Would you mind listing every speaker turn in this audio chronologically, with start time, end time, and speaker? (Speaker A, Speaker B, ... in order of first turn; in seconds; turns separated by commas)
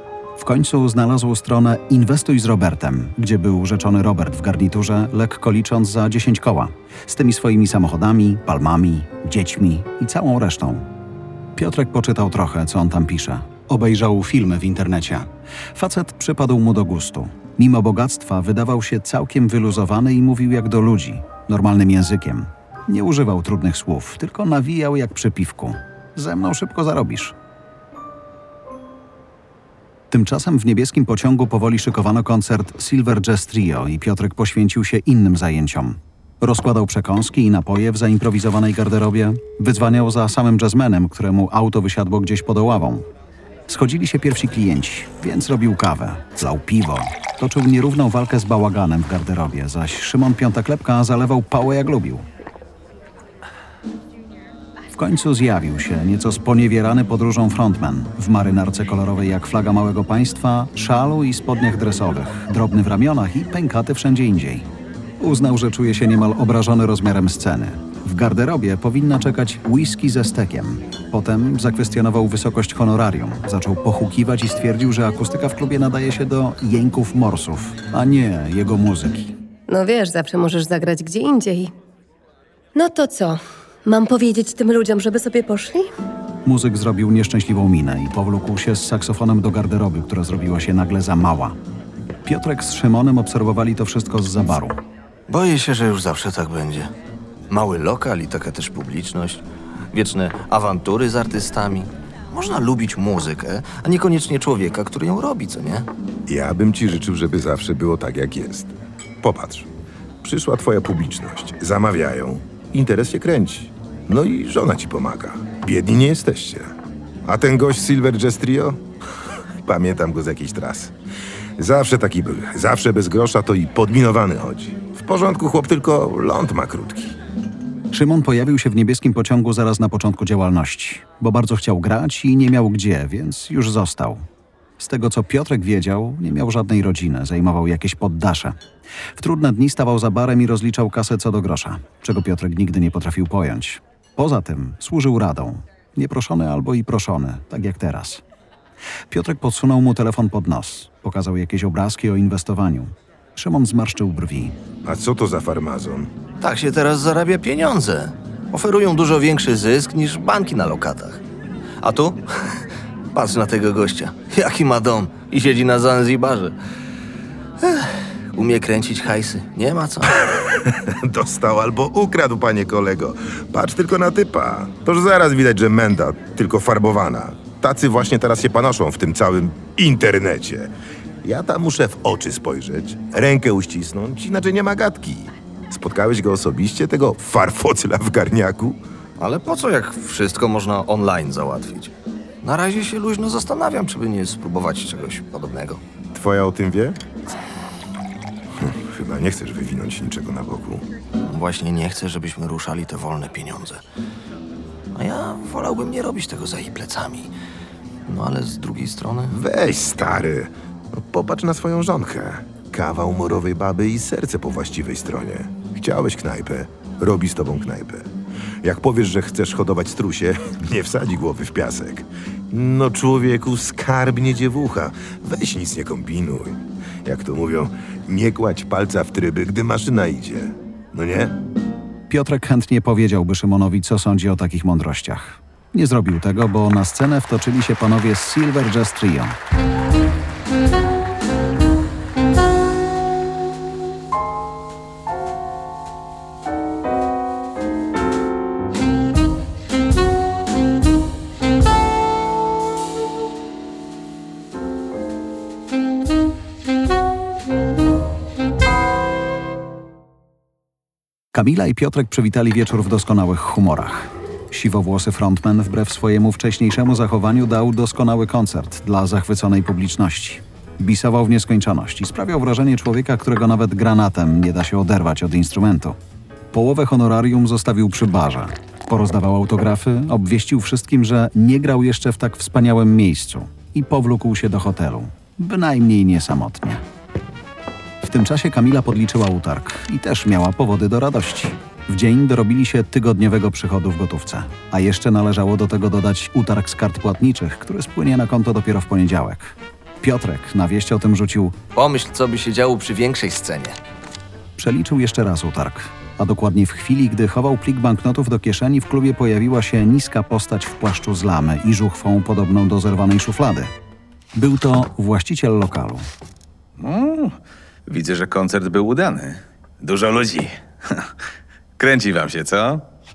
Speaker A: 0.4-10.9, Speaker A: 11.6-27.4, Speaker A: 30.1-43.1, Speaker A: 43.7-52.2, Speaker A: 55.0-79.4, Speaker B: 79.7-81.7, Speaker B: 82.8-85.9, Speaker A: 86.5-91.6, Speaker A: 92.2-94.8, Speaker C: 95.3-96.9, Speaker C: 97.5-105.9, Speaker D: 106.3-109.7, Speaker D: 110.2-116.7, Speaker D: 117.3-118.8, Speaker D: 119.6-120.9, Speaker D: 121.6-127.2, Speaker A: 127.9-134.3, Speaker A: 134.8-138.6, Speaker A: 139.2-148.2, Speaker A: 149.1-154.6, Speaker D: 154.8-156.1, Speaker C: 156.4-161.2, Speaker C: 161.8-162.6, Speaker C: 163.1-166.6, Speaker C: 167.6-170.2, Speaker D: 170.3-180.7, Speaker D: 181.2-188.8, Speaker C: 189.2-195.8, Speaker D: 196.2-197.0, Speaker D: 198.6-200.9, Speaker C: 201.2-203.8, Speaker C: 204.9-207.3, Speaker C: 208.1-209.4, Speaker D: 209.3-218.1, Speaker D: 218.6-231.4, Speaker A: 232.1-239.4, Speaker A: 261.3-276.0, Speaker A: 276.5-286.8, Speaker A: 288.0-301.6, Speaker C: 301.8-303.8, Speaker A: 304.6-313.7, Speaker A: 314.4-316.1, Speaker E: 316.8-321.1, Speaker E: 321.8-322.9